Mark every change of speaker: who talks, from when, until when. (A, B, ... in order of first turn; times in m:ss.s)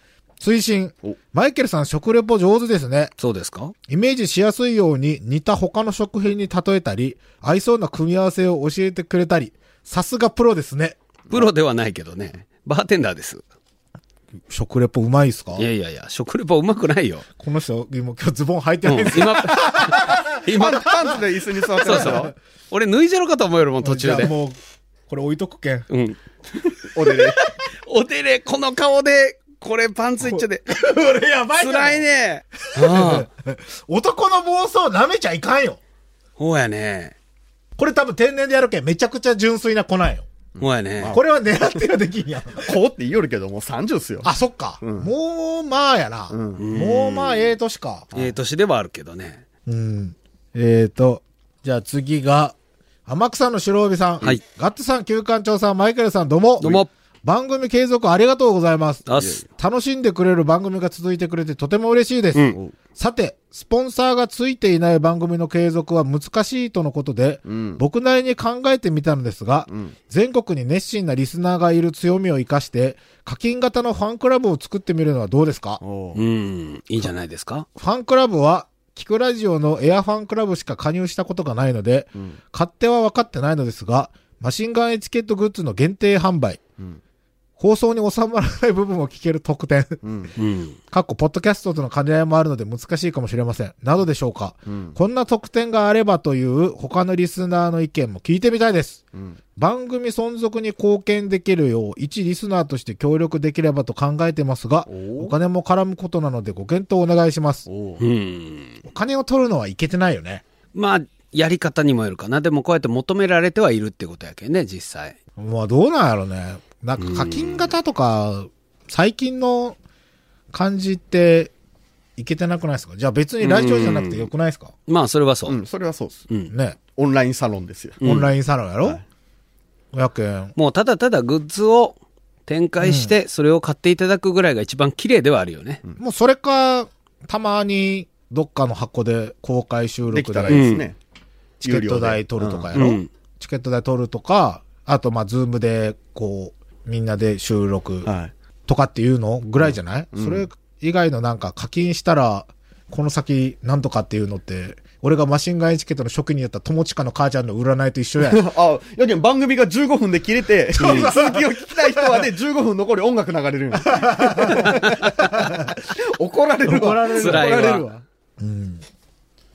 0:00.4-0:03.1 A
0:03.2-0:03.7 B
0:03.9-0:11.0 A
0:11.3-0:13.4 B
0:14.5-0:15.6 A
0:15.6-0:17.2 B
0:17.4-0:20.4 A
0:18.8-0:20.9 B
0:20.4-0:22.3 C
0:21.8-0:24.3 B
0:21.8-0:22.3 A
0:23.8-0:24.6 A
0:25.1-0:25.9 A
0:25.9-0:26.2 B
0:26.9-0:27.4 C
0:27.0-0:30.6 B
0:30.2-0:32.0 A
0:31.6-0:33.3 B
0:32.7-0:35.8 A
0:36.4-0:37.1 B
0:37.8-0:40.3 A
0:40.5-0:41.2 C
0:40.6-0:41.1 B
0:41.1-0:42.8 A
0:42.6-0:44.3 C
0:44.2-0:48.1 A
0:44.8-0:45.1 C
0:46.3-0:46.6 C
0:46.6-0:47.5 B
0:48.1-0:49.4 B
0:49.6-0:52.6 A
0:53.1-1:15.8 A
0:56.6-0:56.9 B
0:59.1-0:59.4 B
0:59.1-0:59.4 C
1:07.4-1:07.8 C
1:15.8-1:16.2 C
1:16.1-1:17.6 B
1:17.8-1:26.6 A
1:27.6-1:30.0 A
1:30.0-1:30.3 C
1:30.4-1:30.8 B
1:30.9-1:39.0 A
1:34.7-1:35.0 C
1:39.6-1:47.6 A
1:44.9-1:45.3 C
1:47.7-1:48.0 C
1:48.0-1:48.8 B
1:48.8-1:50.4 A
1:50.7-1:55.2 B
1:55.4-1:59.8 A
1:57.0-1:57.7 B
2:00.5-2:01.5 A
2:02.2-2:04.7 A
2:03.4-2:04.3 B
2:04.9-2:05.6 B
2:05.5-2:06.3 C
2:06.5-2:06.8 A
2:06.9-2:08.0 C
2:08.0-2:08.3 B
2:08.0-2:09.0 A
2:09.9-2:10.5 A
2:10.6-2:15.8 B
2:12.8-2:13.1 A
2:16.0-2:20.6 A
2:20.1-2:21.0 C
2:20.5-2:20.8 B
2:21.6-2:28.1 A
2:21.6-2:22.9 C
2:22.7-2:23.1 B
2:28.0-2:28.3 C
2:28.7-2:38.4 A
2:29.6-2:30.4 C
2:38.2-2:48.0 C
2:40.7-2:42.3 A
2:40.8-2:41.1 B
2:43.8-2:45.8 A
2:44.6-2:45.2 B
2:46.6-2:47.8 A
2:47.1-2:47.9 B
2:48.4-2:48.8 A